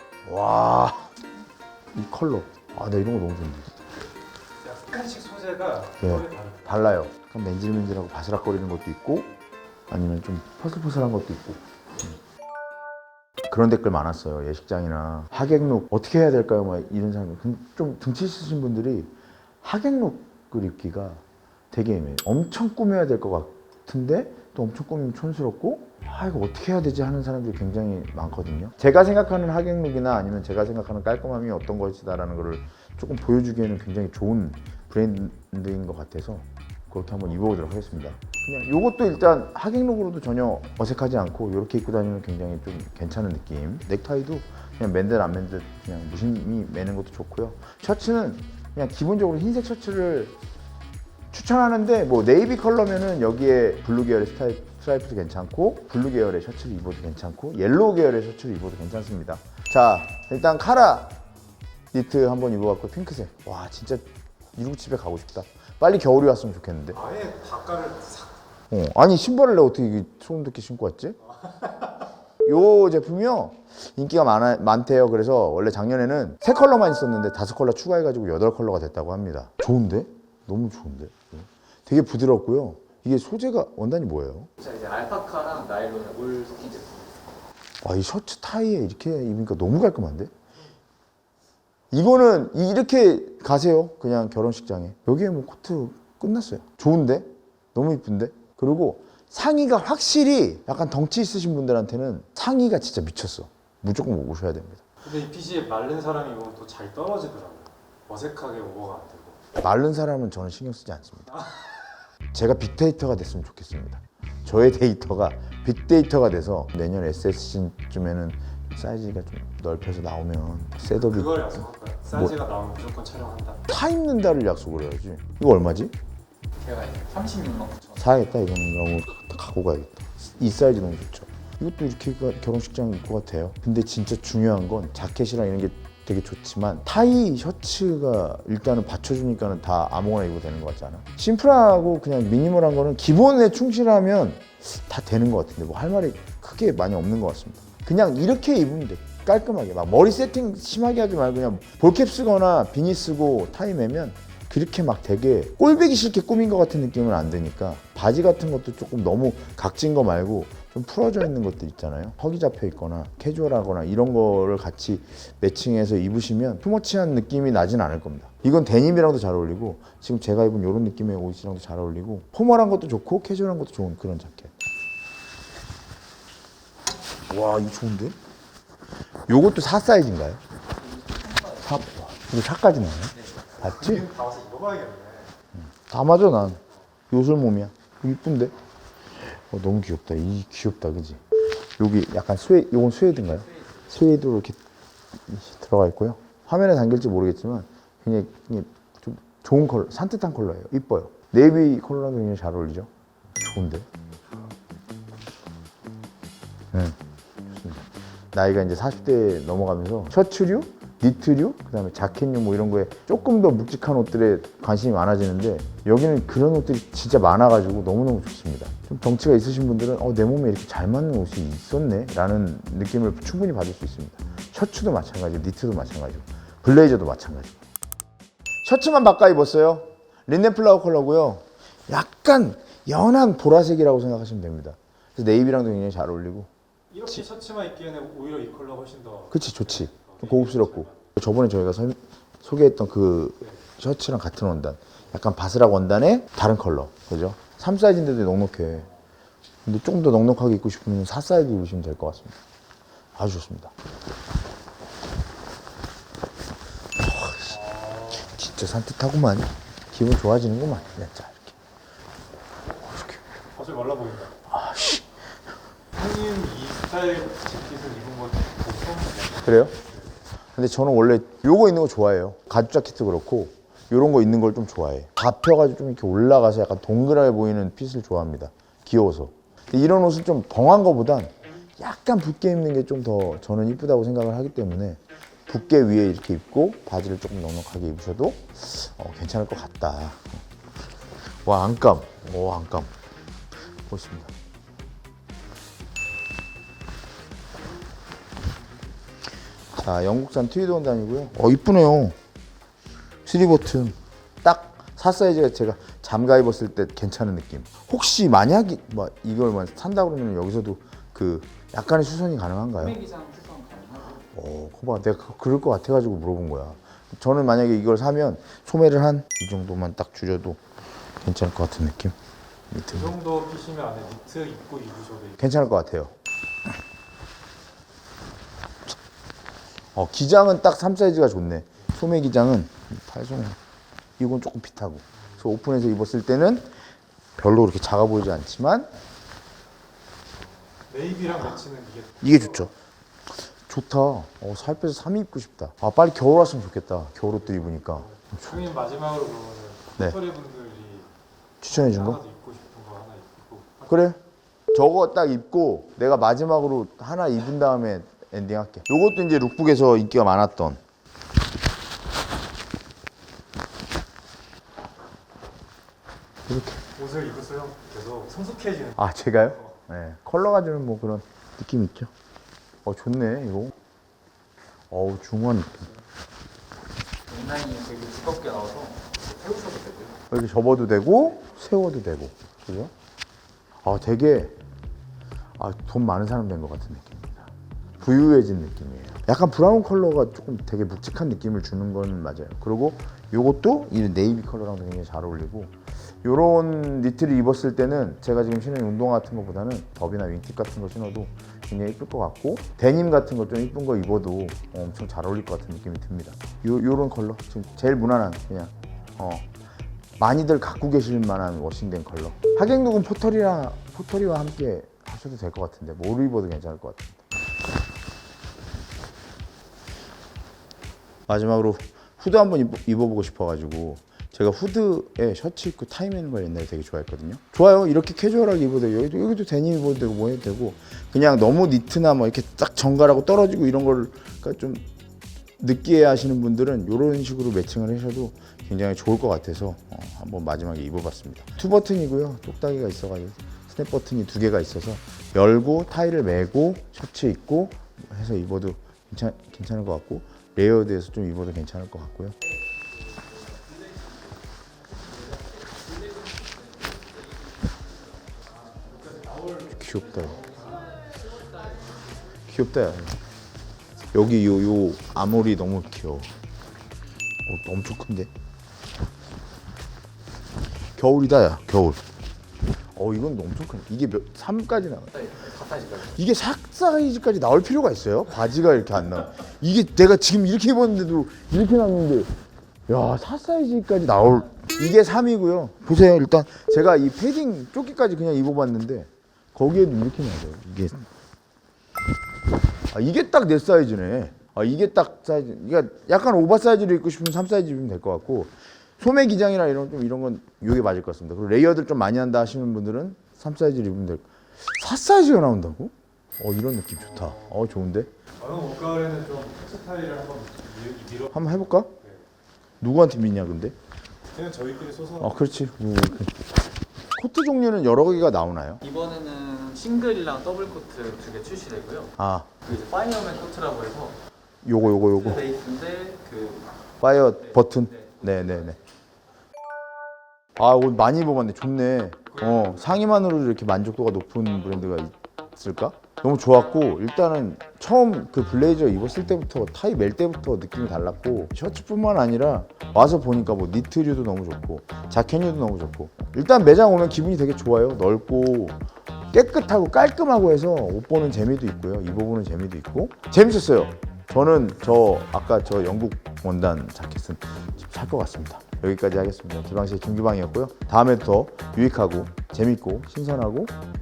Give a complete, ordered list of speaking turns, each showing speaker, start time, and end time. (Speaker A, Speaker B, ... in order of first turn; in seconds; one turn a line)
Speaker A: 0.2-1.1
Speaker A: 1.9-3.8
Speaker B: 4.6-6.8
Speaker A: 6.0-9.3
Speaker A: 9.9-12.2
Speaker A: 13.5-50.4
Speaker A: 51.3-61.1
Speaker A: 61.9-67.0
Speaker B: 66.9-68.4
Speaker A: 68.7-71.2
Speaker B: 71.4-72.0
Speaker A: 72.4-84.5
Speaker B: 84.6-85.4
Speaker C: 84.8-87.1
Speaker B: 86.1-86.9
Speaker A: 87.8-90.3
Speaker A: 91.9-104.8
Speaker B: 105.0-109.4
Speaker A: 109.6-111.3
Speaker B: 111.4-111.8
Speaker A: 112.3-121.4
Speaker B: 120.9-123.6
Speaker A: 123.7-125.9
Speaker B: 126.6-127.9
Speaker A: 128.0-174.5
Speaker A: 177.3-178.2
Speaker A: 179.3-180.4
Speaker A: 181.4-184.1
Speaker B: 183.5-185.3
Speaker A: 185.5-188.5
Speaker A: 189.2-191.2
Speaker A: 191.8-194.6
Speaker A: 195.2-203.9
Speaker A: 206.7-227.6
Speaker A: 228.6-236.5
Speaker B: 236.9-241.1
Speaker A: 239.3-248.9
Speaker A: 249.6-252.4
Speaker A: 253.2-253.7
Speaker A: 257.0-261.6
Speaker B: 257.5-258.3
Speaker A: 262.8-263.2
Speaker B: 263.5-264.3
Speaker A: 264.5-265.1
Speaker B: 265.9-269.6
Speaker A: 269.4-269.7
Speaker A: 270.5-290.4
Speaker A: 291.4-292.9
Speaker A: 293.9-294.3
Speaker A: 299.7-302.1
Speaker A: 303.2-313.0
Speaker C: 313.1-314.1
Speaker A: 314.3-320.6
Speaker A: 321.2-322.1
Speaker A: 322.7-323.1
Speaker B: 322.9-325.6
Speaker A: 325.4-326.1
Speaker A: 329.9-333.6
Speaker A: 334.2-336.7
Speaker A: 337.4-338.9
Speaker B: 340.9-342.7
Speaker A: 342.2-342.7
Speaker A: 343.4-348.7
Speaker B: 347.8-351.1
Speaker A: 351.6-352.2
Speaker B: 351.6-354.0
Speaker A: 353.9-354.2
Speaker A: 354.7-360.8
Speaker A: 366.5-366.8
Speaker B: 366.9-369.0
Speaker A: 368.9-372.1
Speaker A: 372.8-373.7
Speaker A: 374.9-375.9
Speaker B: 377.3-380.1
Speaker C: 377.6-378.9
Speaker A: 380.3-382.9
Speaker A: 383.8-384.5
Speaker A: 385.6-409.4
Speaker A: 410.2-417.2
Speaker A: 421.3-434.8
Speaker A: 435.6-452.4
Speaker B: 458.8-461.4
Speaker A: 459.7-460.4
Speaker A: 462.4-463.2
Speaker A: 464.1-466.3
Speaker A: 467.4-468.3
Speaker A: 471.0-472.0
Speaker A: 472.9-482.3
Speaker A: 482.9-491.1
Speaker A: 492.9-508.1
Speaker B: 507.0-507.6
Speaker B: 508.4-512.2
Speaker A: 511.3-511.9
Speaker A: 512.8-513.7
Speaker B: 514.3-515.5
Speaker A: 515.2-516.5
Speaker A: 517.1-518.8
Speaker C: 519.0-522.1
Speaker A: 522.2-522.5
Speaker B: 522.7-522.9
Speaker C: 522.7-524.1
Speaker A: 524.6-525.5
Speaker B: 525.5-526.7
Speaker A: 527.0-528.8
Speaker A: 530.6-548.8
Speaker B: 532.4-533.0
Speaker A: 549.3-563.7